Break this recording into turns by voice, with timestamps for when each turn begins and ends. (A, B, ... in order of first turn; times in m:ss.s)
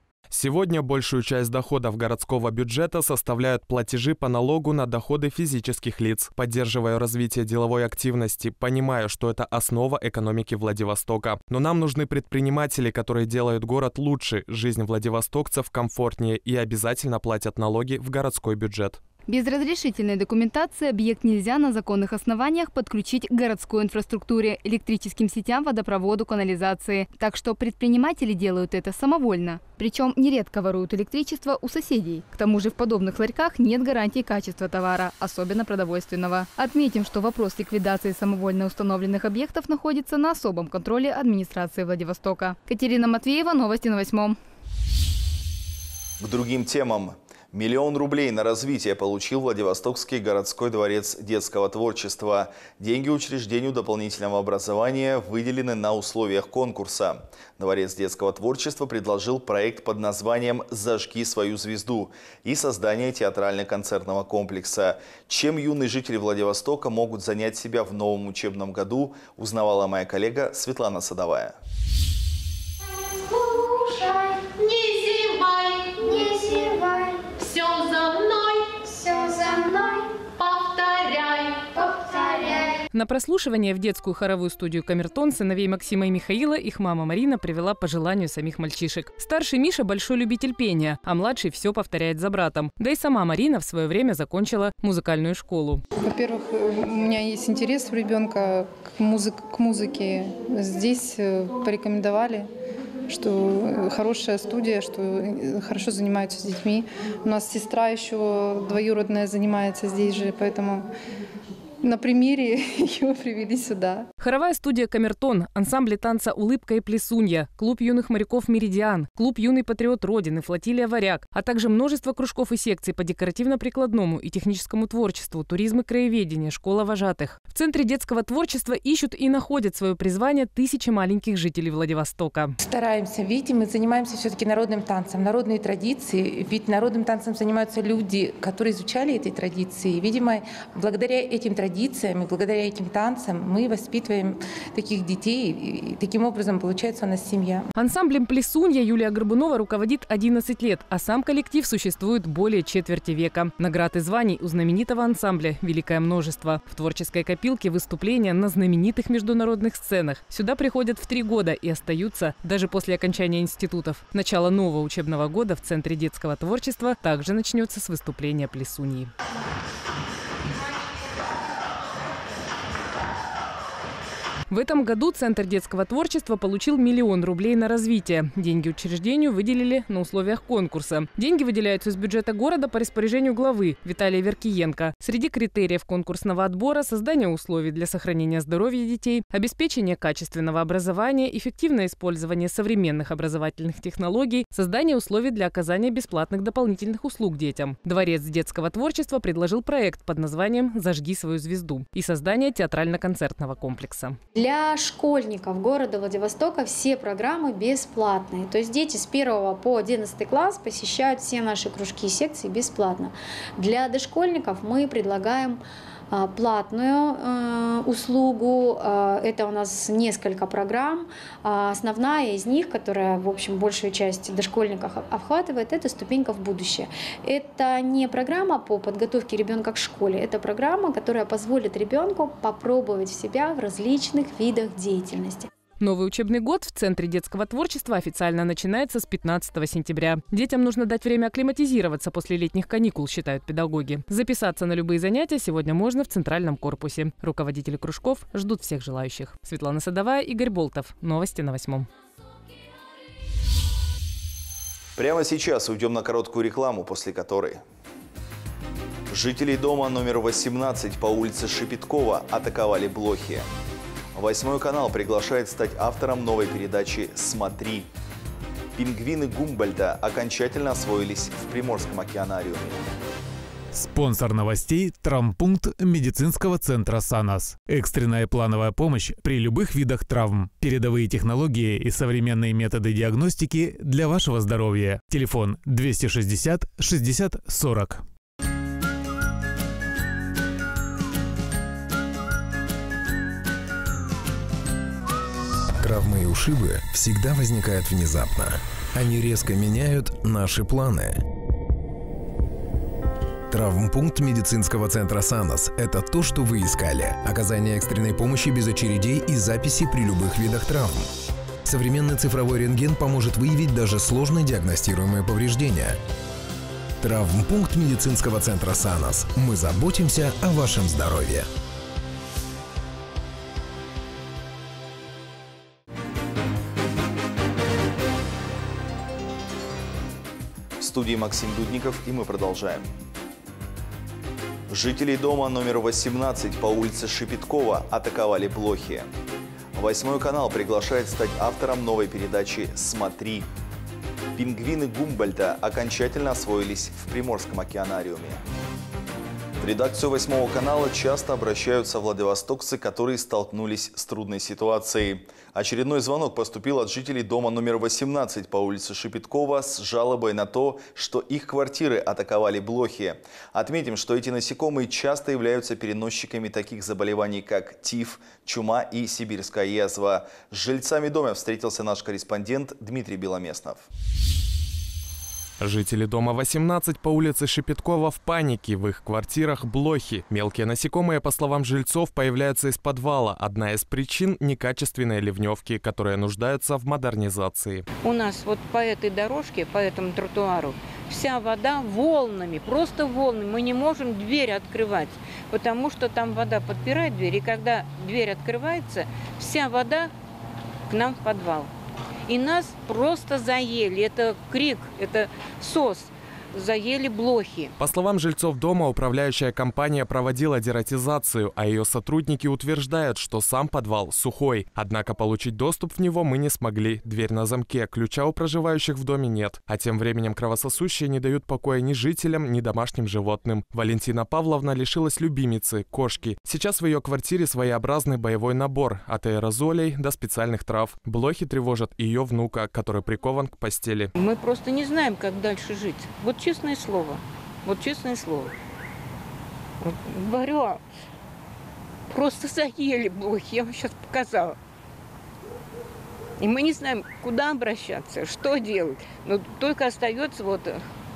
0:00.3-0:19.0 A
0:19.3-0:44.4 B
0:46.2-1:11.6 C
1:22.9-1:35.8 D
1:36.0-1:42.5 E
1:43.1-1:50.9 E
1:51.8-1:54.1 E
1:54.2-2:12.6 D
2:12.6-2:27.7 F
2:27.8-2:49.1 D
2:54.5-3:24.2 D
3:24.4-3:55.5 G
3:55.8-4:11.9 D
4:15.0-4:17.6 C
4:19.1-4:23.5 C
4:24.2-4:27.9 C
4:28.8-4:32.9 C
4:33.7-4:48.0 H
4:55.8-5:01.2 I
5:03.5-5:11.1 I
5:11.7-5:16.0 I
5:17.0-5:21.5 I
5:30.8-5:32.9 C
5:34.7-5:39.1 C
5:39.7-5:43.5 C
5:44.4-5:48.4 C
5:49.6-6:13.9 C
6:15.6-6:27.9 A
6:28.0-6:40.1 J
6:40.9-6:41.7 J
6:42.3-6:47.7 J
6:47.8-7:14.1 A
7:14.2-7:18.5 J
7:19.8-7:20.8 J
7:22.1-7:24.6 J
7:26.4-7:30.8 J